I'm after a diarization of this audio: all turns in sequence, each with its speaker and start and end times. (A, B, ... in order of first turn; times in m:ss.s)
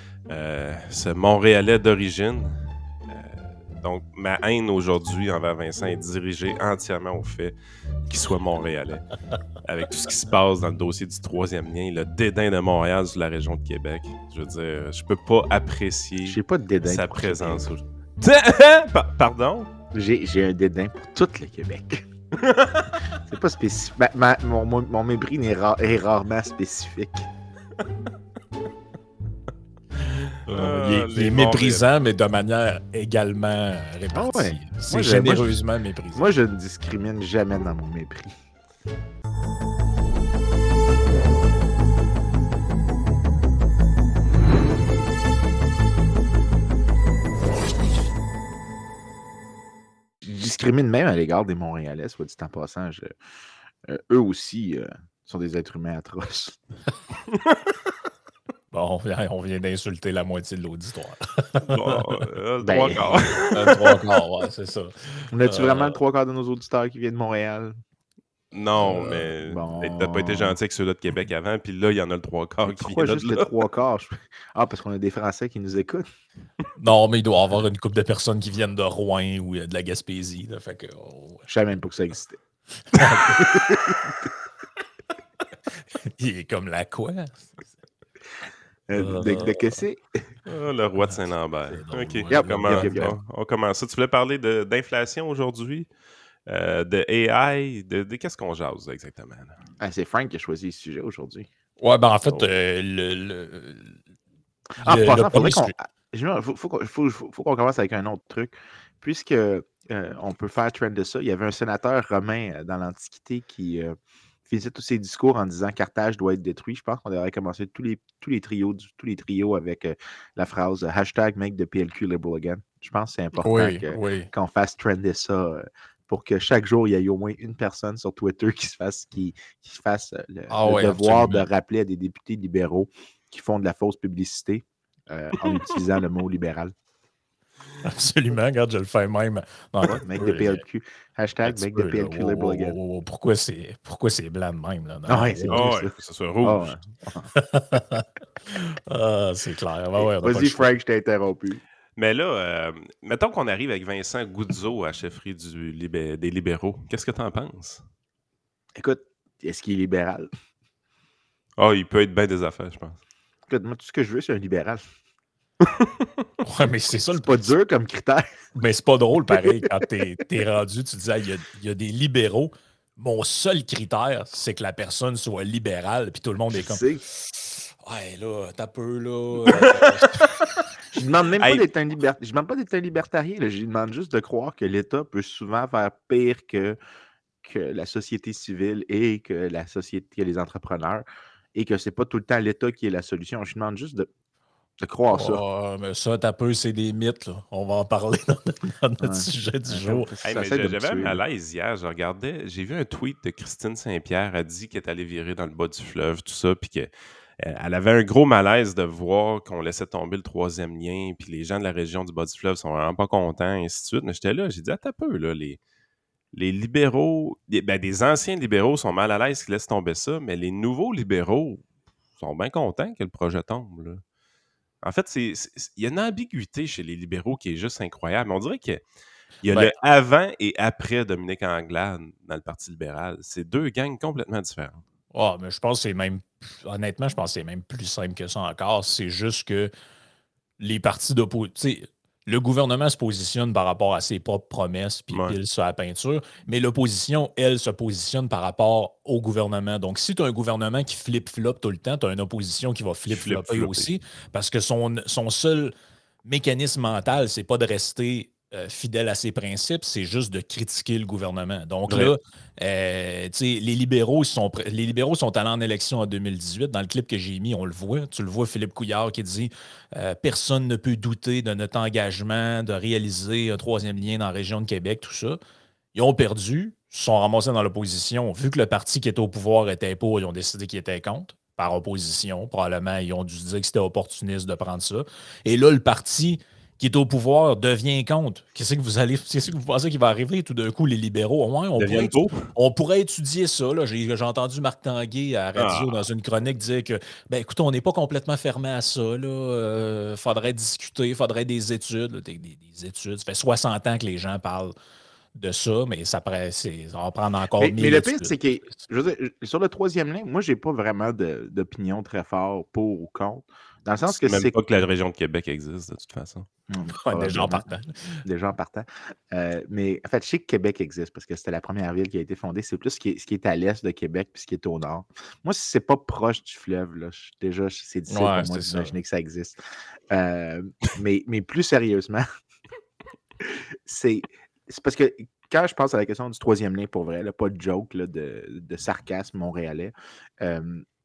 0:00.3-0:07.5 A
0:08.0-0:09.1 A
0:09.6-0:19.7 A
0:16.2-0:17.7 B
0:19.9-0:22.0 B
0:22.4-0:23.2 A
0:23.2-0:27.3 B
0:30.3-0:31.8 A
0:30.4-0:36.2 C
0:34.1-0:35.6 B
0:36.1-0:38.3 B
0:50.2-0:53.1 B
0:53.9-0:56.6 B
0:58.7-1:02.0 C
1:01.7-1:04.0 A
1:02.6-1:03.4 B
1:03.5-1:06.0 C
1:05.3-1:07.7 B
1:08.5-1:13.5 A
1:09.0-1:10.6 B
1:12.6-1:16.0 B
1:16.8-1:21.5 C
1:21.5-1:22.4 B
1:22.9-1:23.4 C
1:23.4-1:24.1 B
1:26.0-1:27.8 C
1:28.9-1:30.0 B
1:28.9-1:29.8 C
1:30.4-1:35.9 A
1:31.0-1:33.0 C
1:32.3-1:33.2 B
1:36.5-1:39.6 A
1:39.8-1:41.5 B
1:41.8-1:44.0 C
1:44.8-1:54.0 B
1:44.8-1:45.7 C
1:54.5-2:16.7 B
2:03.4-2:04.3 C
2:10.5-2:11.4 C
2:17.8-2:20.6 C
2:19.9-2:22.8 B
2:21.4-2:25.7 C
2:25.1-2:27.3 B
2:25.5-2:26.7 A
2:27.3-2:30.7 C
2:30.0-2:31.6 B
2:32.0-2:37.8 A
2:38.8-2:40.3 B
2:41.6-2:43.0 A
2:43.5-2:44.8 B
2:45.6-2:45.9 A
2:46.4-2:47.5 C
2:47.2-2:48.3 B
2:48.5-2:56.8 C
2:56.5-2:57.0 B
2:57.3-3:00.4 C
2:59.6-2:59.9 A
3:01.0-3:06.8 B
3:01.4-3:01.6 A
3:07.4-3:14.1 B
3:14.8-3:15.4 B
3:15.1-3:20.1 C
3:19.0-3:21.2 B
3:20.2-3:35.6 A
3:36.3-3:41.6 A
3:42.2-3:44.0 A
3:44.8-3:48.8 A
3:49.4-3:54.8 A
3:49.5-3:49.7 C
3:55.1-3:59.7 C
4:00.6-4:15.7 C
4:05.1-4:05.4 A
4:13.1-4:13.9 A
4:16.2-4:35.4 C
4:21.9-4:22.1 A
4:35.9-5:04.7 C
4:51.8-4:52.5 A
4:55.6-4:56.0 A
5:05.3-5:08.4 C
5:07.6-5:14.5 B
5:14.1-5:16.5 A
5:16.7-5:17.6 B
5:16.9-5:18.2 C
5:18.2-5:29.6 B
5:28.1-5:28.9 C
5:30.1-5:32.2 B
5:33.8-5:40.8 B